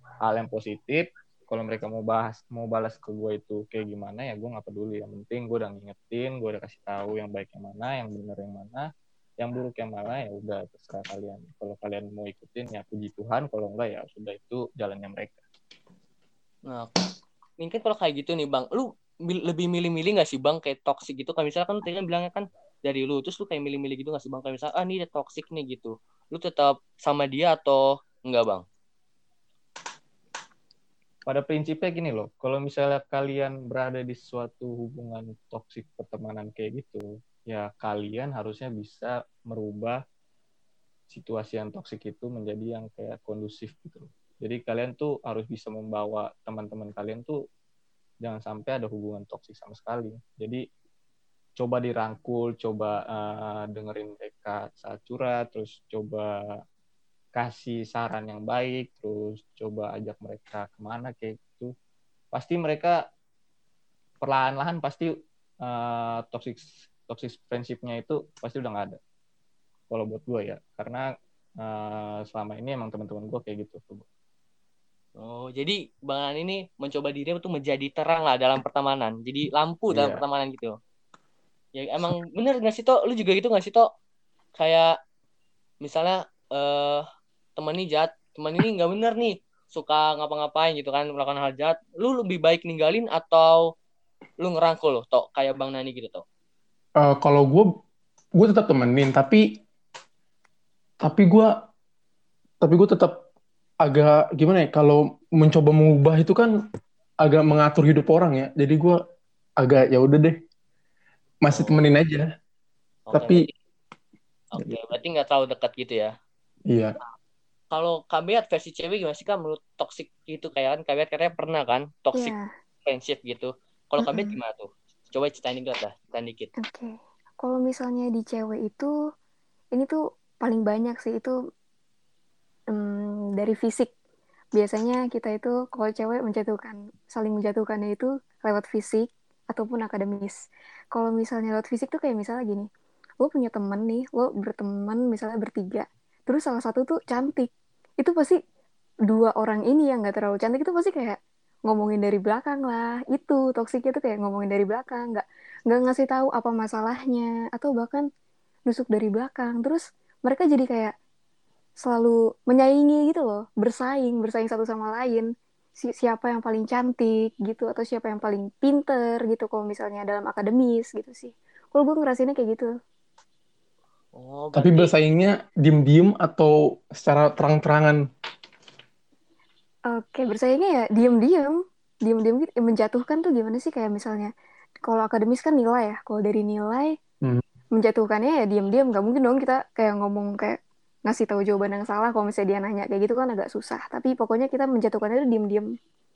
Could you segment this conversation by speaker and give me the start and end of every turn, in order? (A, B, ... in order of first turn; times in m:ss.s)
0:00.2-0:08.9 A
0:09.4-0:15.4 A
0:16.7-0:17.0 B
0:17.6-0:28.6 B
0:31.2-0:40.0 A
0:41.1-0:47.4 A
0:48.2-0:50.6 A
0:51.6-0:56.3 A
0:57.4-1:01.7 A
1:02.3-1:03.0 A
1:04.2-1:05.1 A
1:05.6-1:09.0 A
1:09.9-1:11.0 A
1:11.6-1:14.0 A
1:15.2-1:20.8 B
1:19.9-1:20.2 A
1:21.8-1:23.9 B
1:24.6-1:24.9 B
1:25.8-1:27.0 B
1:27.6-1:33.6 B
1:34.4-1:36.2 B
1:37.0-1:37.8 C
1:38.4-1:39.6 C
1:41.0-1:41.7 C
1:42.6-1:43.2 C
1:43.8-1:46.6 C
1:47.2-1:49.0 C
1:49.6-1:50.4 C
1:51.4-1:52.3 C
1:51.5-1:51.8 B
1:53.1-1:53.5 B
1:53.1-1:53.5 C
1:54.5-1:56.1 B
1:56.7-1:57.0 C
1:57.7-2:02.3 B
2:02.1-2:02.5 D
2:02.8-2:06.5 B
2:04.0-2:04.4 D
2:06.6-2:08.9 D
2:09.7-2:11.4 D
2:12.7-2:13.9 D
2:14.6-2:20.4 D
2:20.9-2:22.7 D
2:23.2-2:27.5 D
2:28.0-2:28.4 D
2:29.1-2:38.1 D
2:38.7-2:40.9 D
2:41.8-2:52.7 D
2:54.1-2:54.9 B
2:54.6-2:58.0 C
2:59.9-3:04.3 D
3:04.8-3:07.0 D
3:07.7-3:15.8 D